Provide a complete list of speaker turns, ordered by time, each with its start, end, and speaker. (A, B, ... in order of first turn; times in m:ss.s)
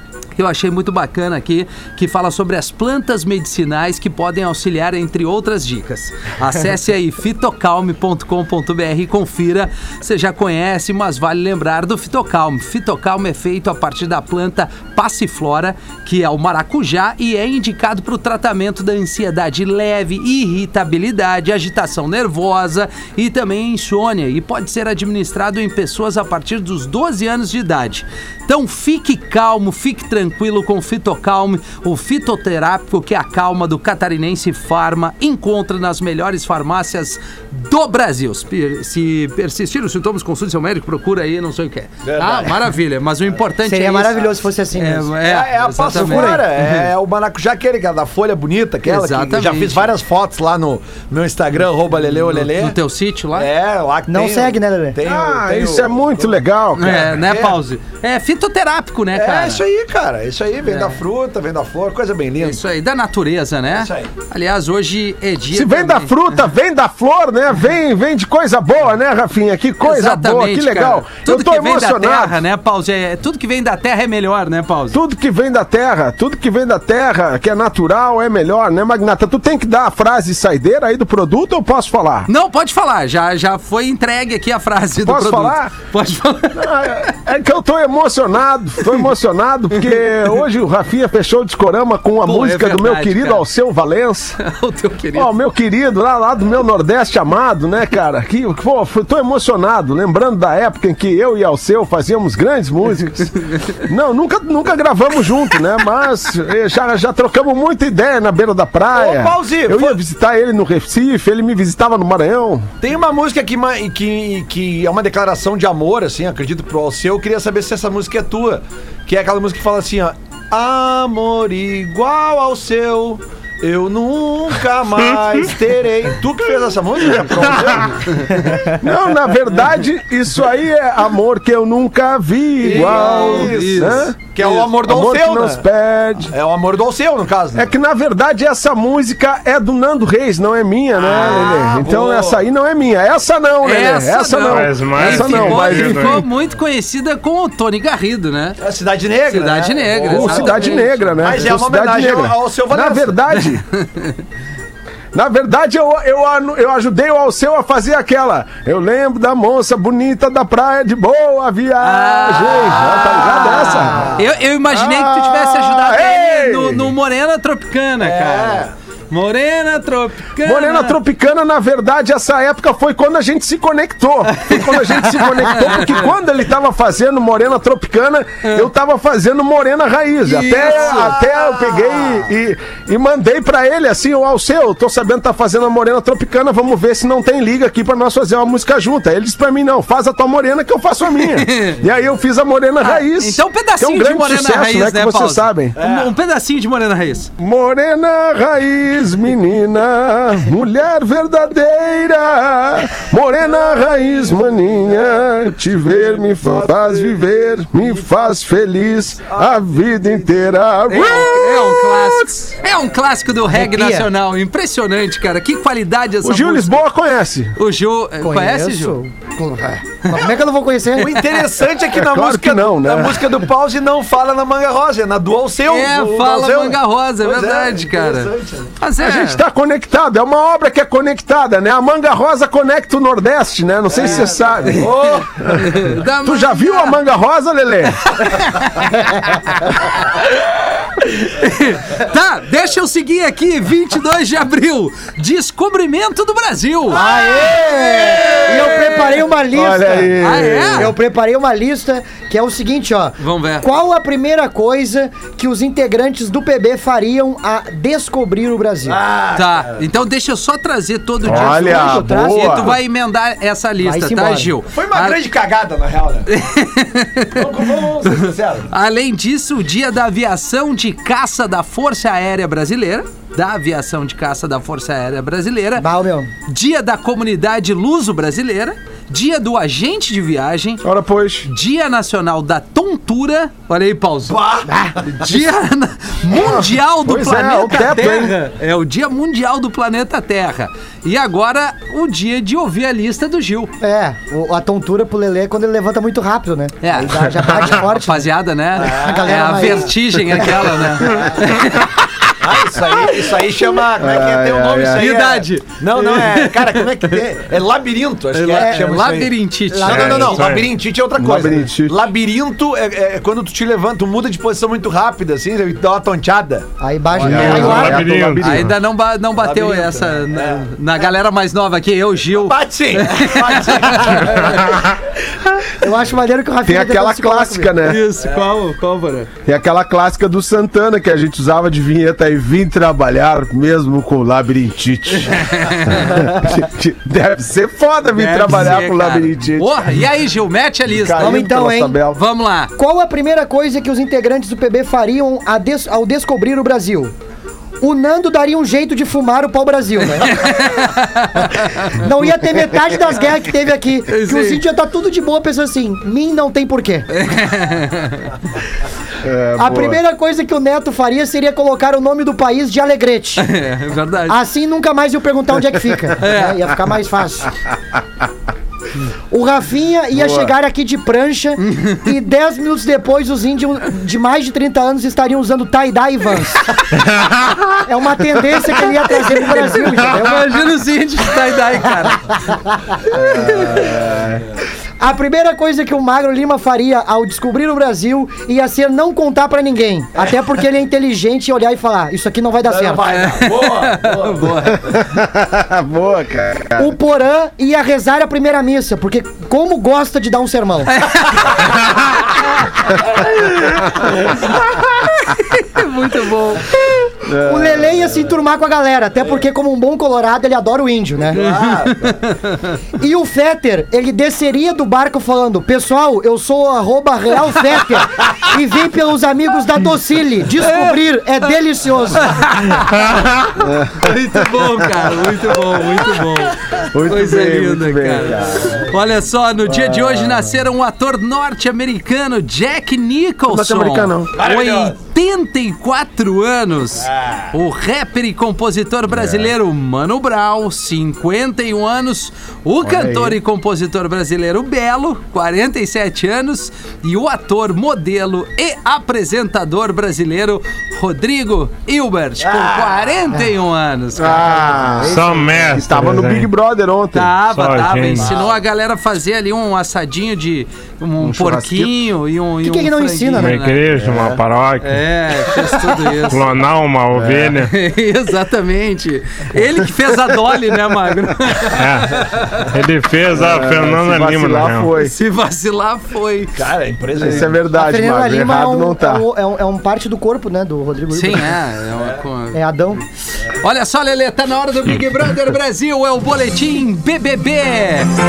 0:00.4-0:46.9 A
0:42.0-0:42.6 B
0:43.6-0:45.1 C
0:45.2-0:52.8 B
0:45.9-0:46.4 C
0:48.8-0:49.9 A
0:52.3-0:53.5 A
0:53.3-0:57.6 B
0:54.1-0:55.0 C
0:55.0-0:57.0 D
0:56.8-0:59.6 A
0:59.1-1:02.6 B
1:00.7-1:01.0 A
1:02.4-1:06.3 A
1:03.7-1:04.1 B
1:05.5-1:12.4 D
1:09.8-1:15.0 A
1:14.9-1:22.3 D
1:22.3-1:26.9 A
1:25.0-1:25.7 D
1:26.5-1:34.4 D
1:32.2-1:33.4 A
1:34.4-1:35.3 A
1:35.1-1:52.7 D
1:48.9-1:50.0 B
1:52.8-2:08.8 B
2:08.7-2:16.3 D
2:12.6-2:14.1 A
2:12.6-2:15.6 B
2:16.3-2:17.7 B
2:17.5-2:26.3 D
2:21.0-2:22.4 B
2:21.1-2:21.5 A
2:23.6-2:28.6 A
2:24.5-2:26.2 E
2:28.6-2:33.2 B
2:29.3-2:31.2 A
2:30.1-2:33.6 D
2:33.3-2:34.2 A
2:35.1-2:44.1 D
2:41.8-2:51.0 A
2:43.8-2:44.2 B
2:44.7-2:46.9 D
2:48.0-2:48.7 B
2:50.4-3:15.8 D
2:54.3-2:56.1 A
2:58.4-2:58.7 A
3:00.2-3:01.2 A
3:00.6-3:02.3 B
3:11.2-3:11.8 A
3:12.8-3:17.3 A
3:15.8-3:16.1 B
3:17.4-3:32.2 D
3:23.7-3:25.0 B
3:25.9-3:27.2 B
3:29.3-3:29.6 B
3:30.9-3:36.8 A
3:33.5-3:34.1 C
3:36.2-3:37.6 D
3:37.6-3:39.0 A
3:38.2-3:41.2 C
3:40.9-3:48.7 B
3:41.1-3:41.4 A
3:41.9-3:43.5 D
3:45.6-3:49.4 A
3:49.0-3:58.2 D
3:54.0-3:55.3 B
3:54.7-3:57.0 A
3:58.0-4:00.3 A
4:01.0-4:07.0 A
4:06.9-4:19.0 C
4:07.5-4:08.4 B
4:08.3-4:09.1 A
4:09.5-4:10.9 D
4:10.2-4:10.9 A
4:13.2-4:13.7 A
4:18.8-4:19.8 B
4:19.3-4:25.2 A
4:21.2-4:22.7 D
4:21.2-4:22.8 C
4:23.8-4:24.5 C
4:24.7-4:26.3 B
4:26.3-4:35.9 A
4:27.3-4:28.7 B
4:35.8-4:36.3 C
4:36.5-4:40.8 A
4:40.8-4:41.5 D
4:41.4-4:44.4 A
4:44.3-4:44.7 B
4:44.7-4:45.0 C
4:45.0-4:53.7 A
4:46.3-4:48.4 D
4:53.8-5:01.2 C
4:56.8-5:02.3 A
4:58.8-4:59.9 B
5:02.4-5:16.6 B
5:03.9-5:05.1 D
5:04.9-5:07.2 A
5:08.3-5:10.5 A
5:08.5-5:08.8 C
5:09.7-5:10.5 C
5:09.9-5:10.7 E
5:11.1-5:12.1 D
5:16.8-5:18.0 C
5:17.2-5:18.7 D
5:17.2-5:18.7 E
5:17.3-5:17.9 A
5:18.4-5:24.7 A
5:19.3-5:20.7 B
5:22.3-5:24.7 B
5:25.7-5:27.7 C
5:26.6-5:28.0 D
5:27.8-5:29.3 A
5:29.4-5:39.8 D
5:35.2-5:36.2 A
5:38.1-5:41.5 A
5:40.9-5:42.2 D
5:41.2-5:42.0 C
5:42.1-5:42.7 A
5:42.8-5:47.1 C
5:47.8-5:50.8 C
5:50.2-5:52.0 A
5:51.4-5:57.1 C
5:54.1-5:54.6 A
5:57.1-5:58.3 A
5:59.2-6:00.0 D
5:59.6-6:03.4 C
6:03.4-6:04.4 A
6:04.3-6:07.5 C
6:06.2-6:06.6 A
6:09.3-6:16.8 C
6:10.1-6:10.5 D
6:11.6-6:12.1 A
6:17.8-6:20.6 C
6:19.5-6:22.4 A
6:22.5-6:23.0 C
6:23.1-6:23.8 A
6:23.4-6:24.4 D
6:25.0-6:33.0 C
6:32.6-6:34.7 B
6:33.1-6:35.0 A
6:34.8-6:37.0 D
6:36.8-6:41.1 C
6:40.9-6:41.7 A
6:43.1-6:46.8 A
6:47.2-6:48.1 D
6:47.3-6:51.4 C
6:51.3-6:52.2 B
6:51.3-6:52.8 A
6:53.0-7:02.7 C
7:00.6-7:01.0 A
7:02.2-7:03.1 A
7:03.6-7:04.8 D
7:04.0-7:34.8 A
7:06.9-7:08.8 D
7:09.6-7:10.5 D
7:13.5-7:14.3 D
7:14.3-7:15.0 B
7:17.0-7:17.5 B
7:19.1-7:19.5 D
7:22.8-7:23.4 D
7:32.4-7:33.2 B
7:34.2-7:37.3 D
7:34.8-7:35.8 C
7:35.0-7:36.5 E
7:37.1-7:43.9 A
7:37.5-7:38.4 E
7:38.2-7:38.6 B
7:41.2-7:42.0 D
7:42.6-7:43.6 C
7:43.4-7:45.1 E
7:43.9-7:44.4 D
7:44.8-7:46.6 A
7:46.3-7:47.7 E
7:47.1-7:47.6 D
7:47.7-7:52.7 A
7:51.7-7:54.9 E
7:53.3-7:55.1 D
7:55.0-7:56.6 A
7:56.6-7:57.6 B
7:57.2-7:59.2 D
7:57.7-8:01.6 C
8:01.1-8:02.6 A
8:02.5-8:03.0 C
8:03.4-8:08.1 A